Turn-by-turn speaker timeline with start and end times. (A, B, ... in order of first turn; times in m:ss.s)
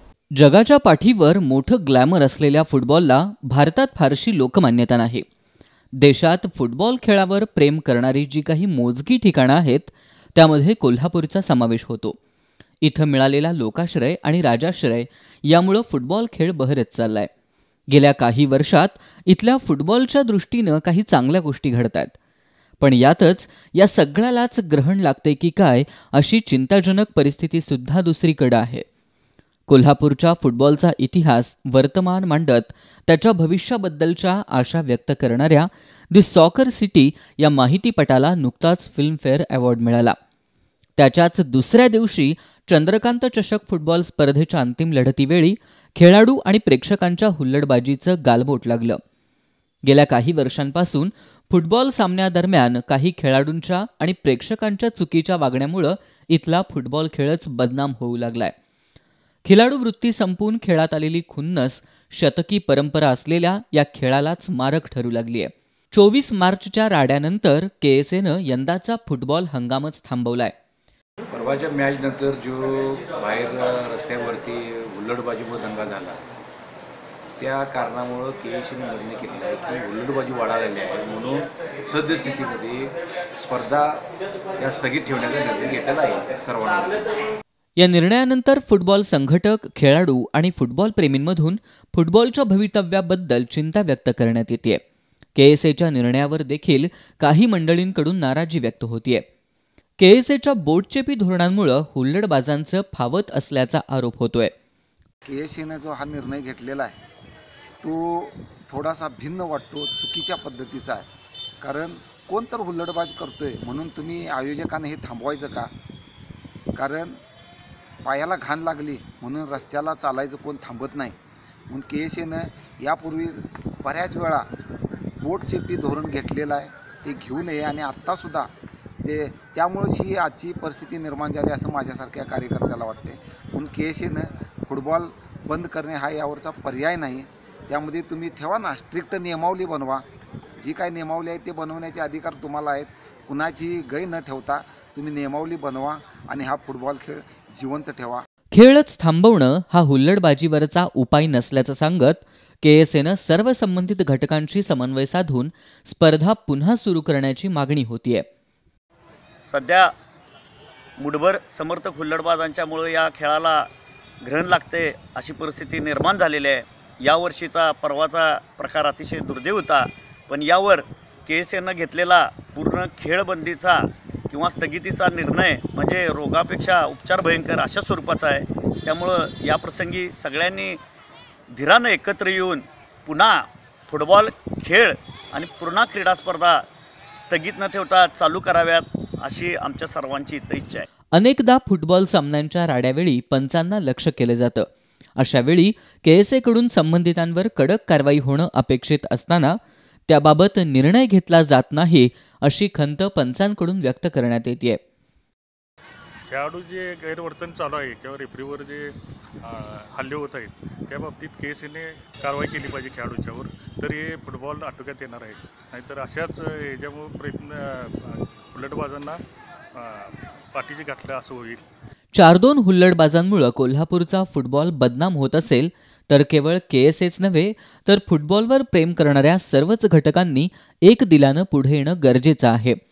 0:00.4-0:05.2 A
0:06.0-0:12.2 A
0:12.8-0:17.3 A
0:17.9-0:22.1 A
0:22.8-0:28.8 A
0:29.7-0:40.2 A
0:41.0-0:49.0 A
0:49.8-0:58.5 A
0:59.4-1:10.5 A
1:11.3-1:16.2 B
1:17.4-1:24.0 B
1:24.6-1:27.2 B
1:27.8-1:34.8 A
1:35.4-1:39.2 A
1:40.0-1:44.5 A
1:45.2-1:47.0 C
1:47.8-1:51.0 C
1:51.6-1:55.7 C
1:56.8-1:57.2 C
1:58.0-2:01.2 C
2:01.7-2:04.5 C
2:05.2-2:08.5 C
2:09.0-2:20.0 C
2:20.6-2:28.2 C
2:28.5-2:38.3 A
2:39.4-2:39.9 D
2:41.0-2:43.7 D
2:44.2-3:00.8 D
3:01.5-3:06.6 D
3:07.2-3:10.9 D
3:11.1-3:24.8 A
3:26.3-3:39.2 E
3:39.8-3:41.6 E
3:42.1-3:52.8 A